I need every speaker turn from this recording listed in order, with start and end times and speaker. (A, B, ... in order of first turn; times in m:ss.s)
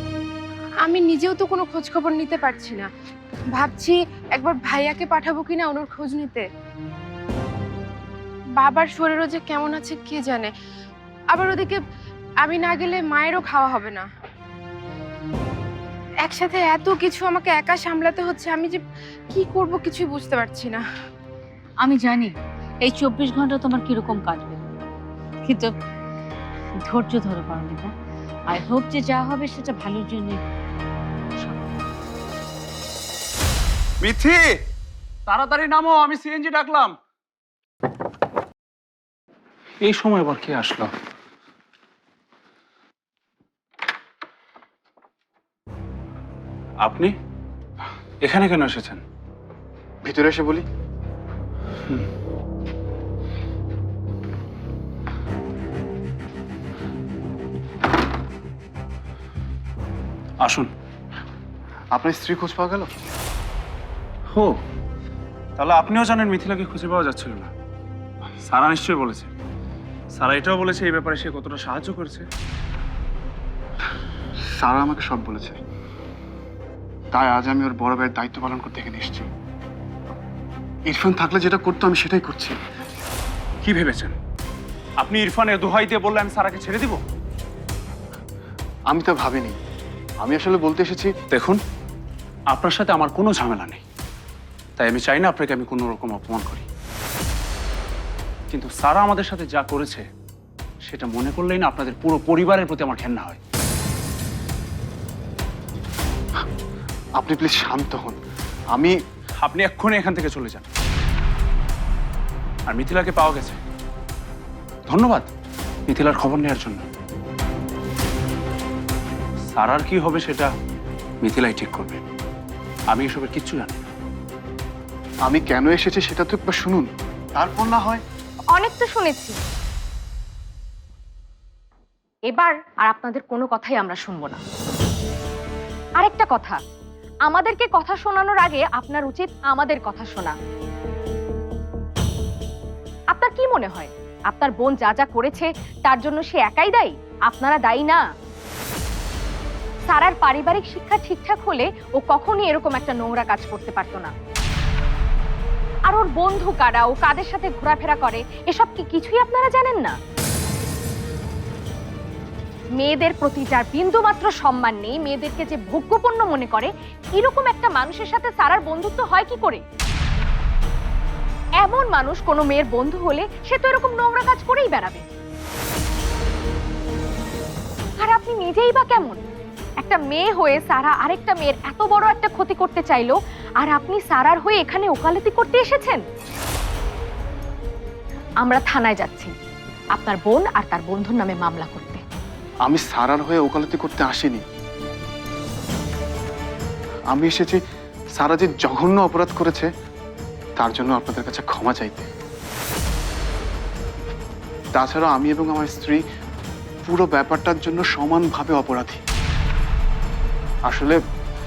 0:00.8-0:02.9 A
0:03.5-0:06.4 A
0:08.6-0:10.5 A
0:11.3-0:11.8 A
0:12.4-0:14.1 A
0:16.2-0:18.8 A
0:19.3-0:20.8 A
0:21.8-0:24.6 B
0:25.4-0:25.7 B
0:26.9-0:27.9 B
0:28.5-0:30.4 B
0:31.4-0:31.7 B
0:34.0-0:34.6 C
0:35.3-0:37.0 C
0:39.8-0:40.9 C
0:46.8-0:47.1 C
0:48.2-0:49.0 C
0:50.0-0:50.6 D
1:00.4-1:00.7 C
1:01.9-1:02.9 D
1:04.3-1:04.6 C
1:05.6-1:07.5 C
1:08.4-1:09.3 C
1:10.2-1:12.2 C
1:14.6-1:15.6 D
1:17.1-1:19.3 D
1:20.9-1:22.6 D
1:23.6-1:24.2 C
1:25.0-1:27.0 C
1:28.9-1:29.6 D
1:30.2-1:31.1 D
1:31.3-1:31.6 C
1:32.5-1:33.8 C
1:34.8-1:36.6 C
1:38.5-1:40.0 C
1:40.8-1:43.4 C
1:47.2-1:48.2 D
1:49.4-1:50.6 C
1:52.7-1:53.6 C
1:54.9-1:55.3 C
1:55.9-1:56.9 C
1:59.5-2:00.5 C
2:01.2-2:02.0 C
2:02.9-2:03.8 C
2:05.2-2:08.0 D
2:08.5-2:09.4 E
2:12.3-2:14.4 E
2:16.0-2:16.6 E
2:17.3-2:20.3 E
2:23.1-2:28.0 E
2:29.9-2:34.1 E
2:35.9-2:39.9 E
2:42.8-2:49.6 E
2:51.6-2:55.1 E
2:58.0-2:59.2 E
2:59.8-3:06.0 E
3:08.4-3:09.3 E
3:09.9-3:12.0 E
3:12.6-3:14.4 D
3:17.1-3:17.6 D
3:18.2-3:19.7 D
3:20.6-3:22.1 D
3:24.8-3:26.0 D
3:26.8-3:29.0 D
3:30.7-3:31.0 D